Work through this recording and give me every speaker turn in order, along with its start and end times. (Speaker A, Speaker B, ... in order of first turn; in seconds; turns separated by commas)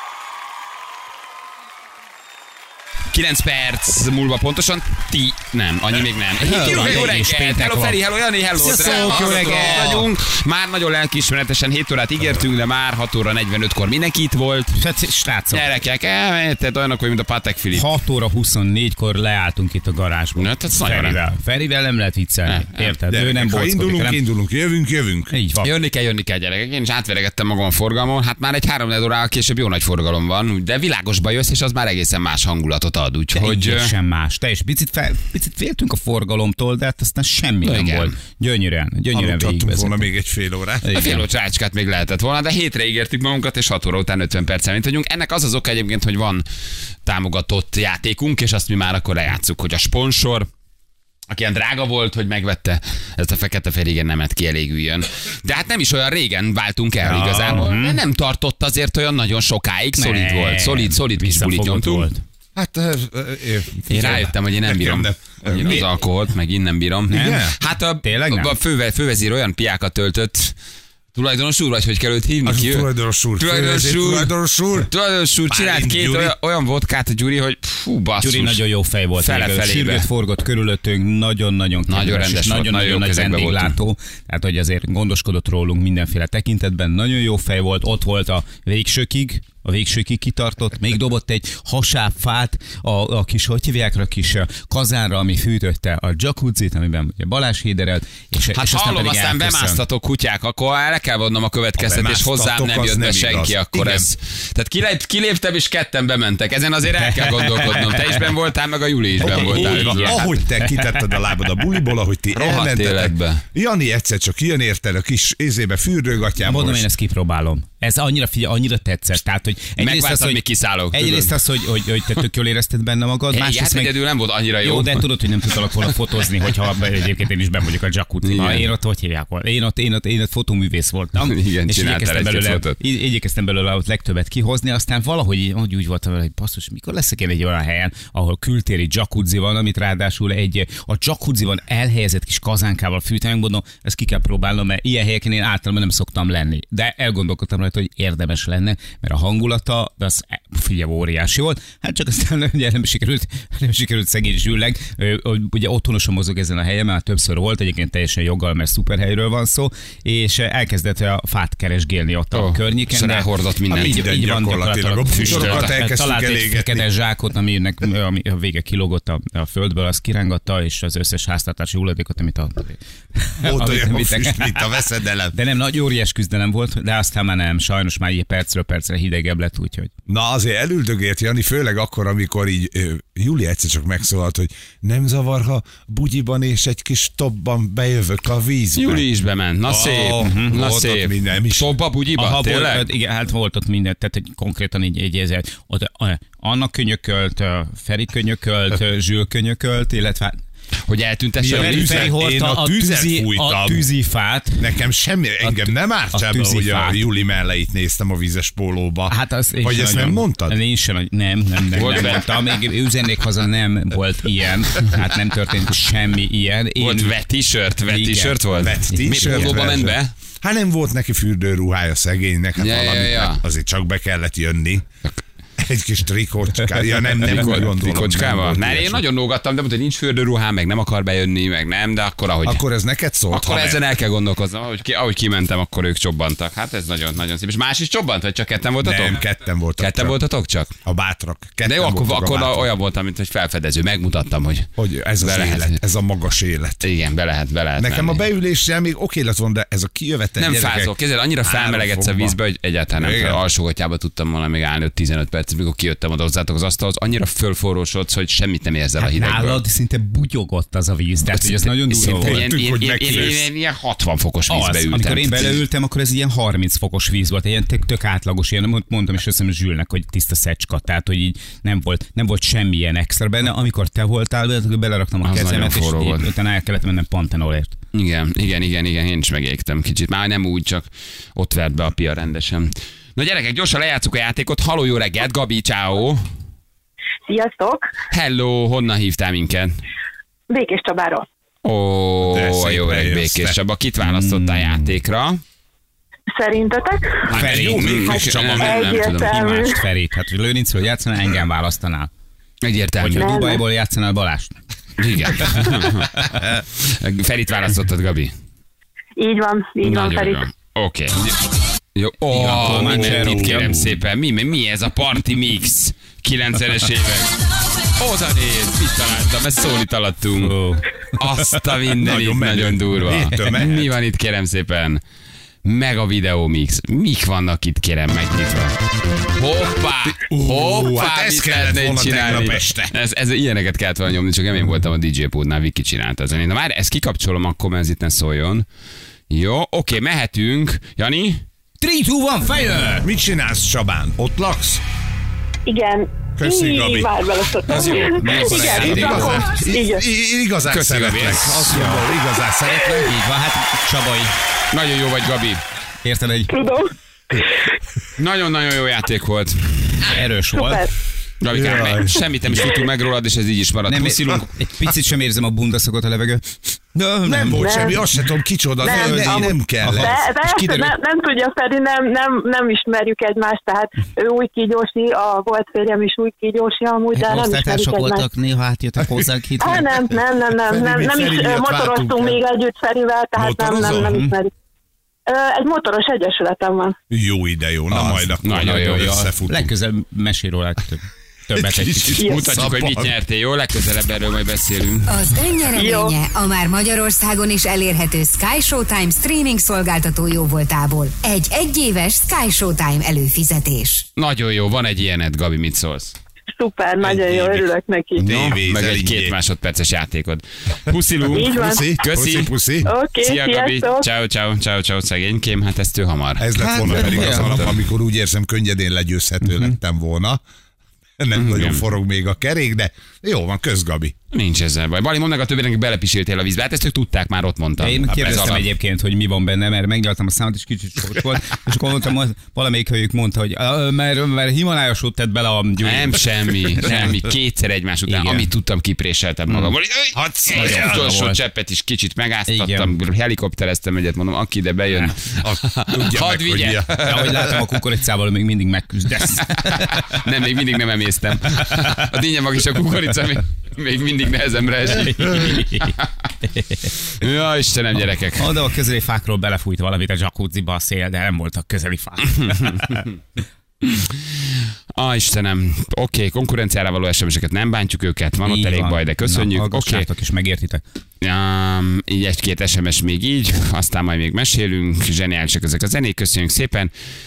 Speaker A: 3.1-14.8, Speaker B: 6.4-8.0, Speaker B: 8.6-10.1, Speaker C: 8.8-10.0, Speaker B: 14.7-15.7, Speaker A: 15.5-17.9, Speaker B: 17.7-24.2, Speaker A: 20.4-21.2, Speaker A: 22.4-22.9, Speaker C: 23.1-25.3, Speaker B: 25.3-25.7, Speaker A: 25.6-33.9, Speaker B: 33.3-40.1, Speaker A: 37.6-38.1, Speaker C: 39.1-40.9, Speaker B: 40.8-41.3, Speaker A: 40.9-46.5, Speaker A: 47.0-50.5, Speaker A: 51.3-62.1, Speaker B: 57.0-58.0, Speaker B: 60.0-62.2, Speaker C: 62.5-65.9, Speaker A: 63.9-70.5, Speaker B: 67.1-68.5, Speaker C: 67.1-67.5, Speaker A: 71.1-78.6, Speaker C: 72.5-74.9, Speaker C: 75.5-76.3, Speaker B: 78.2-99.8, Speaker A: 79.2-80.1, Speaker A: 81.9-83.8, Speaker A: 98.5-110.4, Speaker C: 101.8-104.1, Speaker B: 107.0-108.3, Speaker C: 109.2-116.9, Speaker B: 109.2-111.0, Speaker A: 112.3-113.4, Speaker B: 116.4-123.9, Speaker A: 119.8-121.4, Speaker A: 123.3-125.1, Speaker B: 124.6-174.7, Speaker A: 125.7-125.9, Speaker A: 128.2-128.7, Speaker A: 131.2-132.8, Speaker A: 162.3-164.1, Speaker C: 163.7-166.9, Speaker A: 165.2-165.8, Speaker C: 173.4-175.3, Speaker B: 175.3-179.9, Speaker C: 180.1-189.1, Speaker A: 188.8-192.8, Speaker C: 189.7-191.7, Speaker B: 190.2-190.5, Speaker B: 192.2-200.4, Speaker A: 200.9-202.2, Speaker C: 201.4-203.9, Speaker B: 201.5-204.7, Speaker C: 204.6-210.6, Speaker B: 206.1-207.0, Speaker B: 209.1-217.1, Speaker A: 211.7-212.5, Speaker A: 216.8-220.1, Speaker B: 217.9-219.6, Speaker C: 218.6-224.9, Speaker A: 222.6-223.4, Speaker C: 225.6-229.0, Speaker A: 227.2-232.7, Speaker C: 232.4-233.8, Speaker A: 233.3-240.7, Speaker C: 238.8-240.2, Speaker C: 240.8-242.7, Speaker A: 241.6-245.8, Speaker C: 244.8-246.9, Speaker A: 246.8-248.3, Speaker C: 247.8-252.4, Speaker A: 250.4-259.6, Speaker C: 253.0-253.4, Speaker B: 259.0-262.4, Speaker A: 261.3-265.6, Speaker C: 262.0-263.4, Speaker B: 264.5-277.8, Speaker A: 275.2-276.3, Speaker A: 277.9-286.2, Speaker D: 287.3-287.9, Speaker A: 288.1-289.8, Speaker D: 290.5-291.2, Speaker A: 291.6-295.4, Speaker C: 292.2-293.6, Speaker B: 294.0-294.9, Speaker D: 296.4-297.2, Speaker B: 297.3-298.1, Speaker C: 297.3-299.0, Speaker A: 297.3-299.5, Speaker D: 297.9-299.8, Speaker B: 299.3-302.1, Speaker A: 302.6-303.4, Speaker B: 303.0-304.5, Speaker D: 303.2-303.6, Speaker A: 305.0-308.3, Speaker D: 309.2-310.4, Speaker A: 309.8-311.3, Speaker A: 311.9-317.4, Speaker B: 312.3-314.0, Speaker C: 312.5-313.7, Speaker A: 318.0-320.5, Speaker B: 320.4-320.9, Speaker A: 321.1-325.0, Speaker C: 322.0-323.9, Speaker A: 325.6-328.8, Speaker A: 329.4-338.7, Speaker C: 330.3-332.9, Speaker A: 339.3-341.4, Speaker B: 341.8-343.1, Speaker C: 343.0-344.8, Speaker D: 345.7-350.0, Speaker C: 346.4-347.1, Speaker A: 347.7-348.3, Speaker C: 347.8-353.2, Speaker B: 347.8-349.5, Speaker A: 350.7-351.8, Speaker B: 351.7-352.1, Speaker B: 353.0-354.3, Speaker A: 354.7-355.6, Speaker B: 356.0-356.5, Speaker D: 356.5-357.4, Speaker A: 358.2-360.1, Speaker B: 360.1-360.8, Speaker D: 360.5-360.9, Speaker A: 361.4-364.5, Speaker C: 361.5-362.2, Speaker B: 363.9-368.0, Speaker C: 367.2-370.1, Speaker D: 367.5-368.0, Speaker D: 368.8-378.3, Speaker B: 368.8-370.9, Speaker B: 377.1-379.9, Speaker D: 379.6-384.5, Speaker C: 380.6-382.4, Speaker C: 383.4-384.1, Speaker B: 383.8-384.4, Speaker D: 385.3-386.9, Speaker C: 387.1-389.7, Speaker B: 387.9-392.5, Speaker A: 388.4-389.2, Speaker C: 391.5-393.1, Speaker A: 392.2-395.1, Speaker D: 392.2-392.5, Speaker E: 395.1-404.1, Speaker D: 395.8-396.1, Speaker A: 404.2-406.1, Speaker D: 406.6-408.3, Speaker C: 407.0-409.4, Speaker A: 408.2-412.6, Speaker C: 411.3-412.9, Speaker D: 411.3-411.9, Speaker D: 412.9-414.1, Speaker A: 413.1-417.8, Speaker C: 416.4-420.4, Speaker B: 416.6-417.7, Speaker B: 419.4-419.8, Speaker C: 421.2-424.1, Speaker A: 421.3-421.8, Speaker A: 424.3-428.7, Speaker B: 427.8-437.2, Speaker C: 428.2-428.4, Speaker A: 435.8-447.4, Speaker B: 438.1-438.5, Speaker C: 440.1-441.3, Speaker B: 440.5-441.4, Speaker B: 442.5-442.9, Speaker C: 445.4-447.6, Speaker B: 447.0-450.1, Speaker A: 449.4-456.3, Speaker B: 454.9-455.9, Speaker A: 457.1-458.5, Speaker B: 458.4-463.1, Speaker A: 464.5-470.1, Speaker B: 468.4-470.8, Speaker A: 471.2-476.9